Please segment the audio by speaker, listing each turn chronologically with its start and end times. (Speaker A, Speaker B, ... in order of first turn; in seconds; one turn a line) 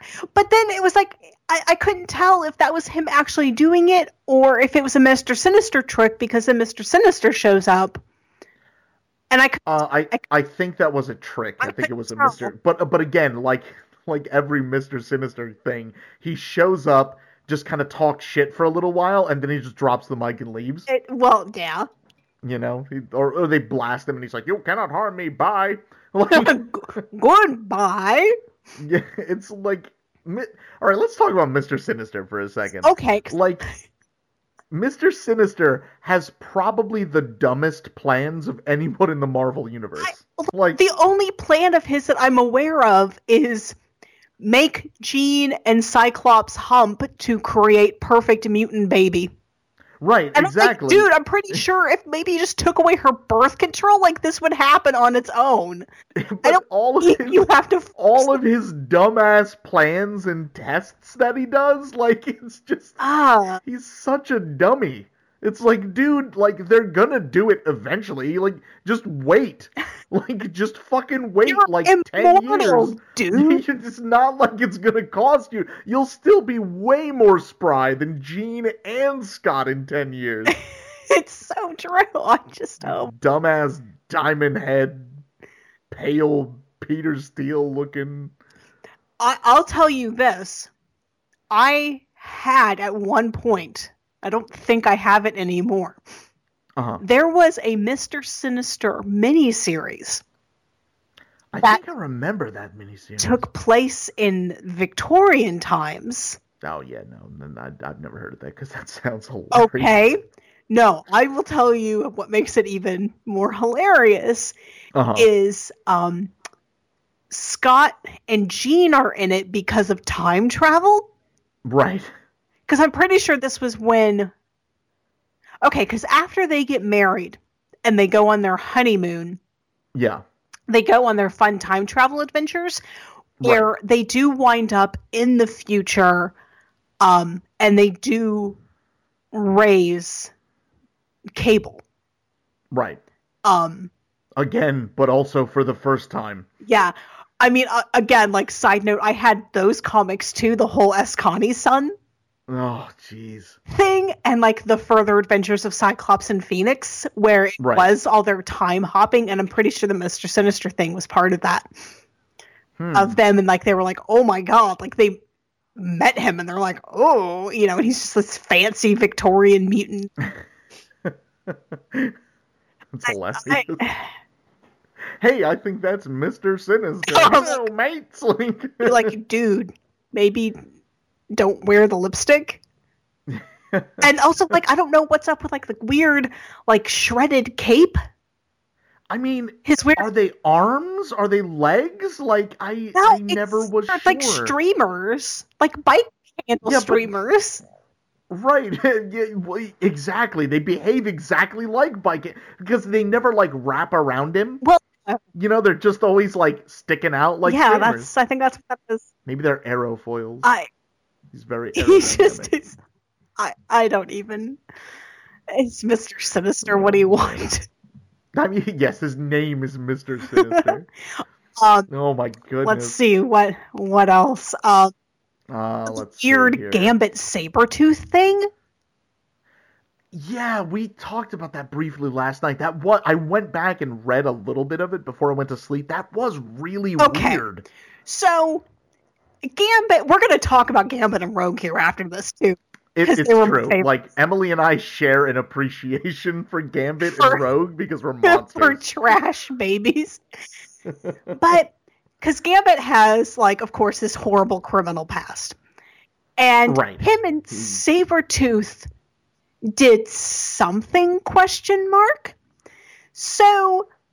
Speaker A: 0.2-8.0
Speaker A: 9.3-10.2
Speaker B: 9.7-20.9
Speaker A: 11.6-12.5
Speaker A: 20.9-21.9
Speaker B: 22.4-26.6
Speaker A: 26.3-28.3
Speaker B: 28.8-33.6
Speaker A: 32.8-33.4
Speaker B: 34.7-40.8
Speaker A: 40.0-43.8
Speaker A: 44.4-49.3
Speaker B: 50.0-51.6
Speaker A: 50.4-55.9
Speaker B: 56.1-57.4
Speaker A: 56.4-58.4
Speaker B: 58.0-63.0
Speaker A: 63.0-63.6
Speaker B: 63.6-80.5
Speaker A: 71.5-73.6
Speaker A: 81.1-83.1
Speaker B: 82.8-85.2
Speaker B: 85.9-88.3
Speaker A: 89.2-90.7
Speaker A: 91.5-96.0
Speaker B: 96.8-97.0
Speaker A: 97.0-100.2
Speaker B: 101.5-103.4
Speaker A: 103.2-106.4
Speaker B: 106.6-110.0
Speaker A: 109.5-114.5
Speaker B: 114.9-115.3
Speaker A: 115.2-116.3
Speaker A: 117.3-121.1
Speaker B: 121.6-122.1
Speaker A: 122.7-124.3
Speaker A: 125.6-129.4
Speaker B: 129.9-130.2
Speaker A: 130.7-132.8
Speaker B: 133.4-133.7
Speaker A: 133.4-136.3
Speaker A: 137.0-138.6
Speaker A: 139.3-140.3
Speaker A: 141.3-141.8
Speaker B: 142.7-143.0
Speaker A: 143.4-143.9
Speaker B: 144.4-146.5
Speaker A: 146.6-151.9
Speaker B: 152.5-153.6
Speaker A: 153.7-161.7
Speaker B: 157.6-157.9
Speaker B: 162.8-163.2
Speaker A: 162.9-165.2
Speaker A: 165.8-170.1
Speaker B: 171.0-172.1
Speaker B: 172.9-173.9
Speaker A: 173.1-174.1
Speaker B: 175.2-179.1
Speaker A: 177.1-177.6
Speaker A: 178.8-180.6
Speaker A: 181.3-182.6
Speaker B: 183.3-184.1
Speaker A: 184.0-188.0
Speaker B: 189.1-194.5
Speaker A: 189.7-190.1
Speaker A: 192.9-197.6
Speaker B: 196.6-197.1
Speaker B: 198.3-204.6
Speaker A: 204.6-205.2
Speaker B: 205.3-208.1
Speaker A: 207.4-209.1
Speaker B: 209.2-210.5
Speaker A: 210.4-210.7
Speaker B: 211.3-212.6
Speaker A: 211.7-212.8
Speaker A: 213.4-214.6
Speaker A: 215.5-217.7
Speaker B: 216.6-217.4
Speaker B: 218.3-220.9
Speaker A: 220.3-221.9
Speaker B: 221.9-222.9
Speaker A: 222.6-224.9
Speaker B: 225.5-226.9
Speaker A: 225.9-228.5
Speaker B: 230.1-237.6
Speaker A: 237.0-237.4
Speaker A: 238.1-238.6
Speaker A: 239.5-243.9
Speaker B: 242.9-248.9
Speaker A: 247.0-247.4
Speaker A: 248.2-250.2
Speaker A: 251.3-255.6
Speaker A: 256.4-258.9
Speaker B: 256.7-257.8
Speaker A: 259.7-262.4
Speaker A: 263.1-263.9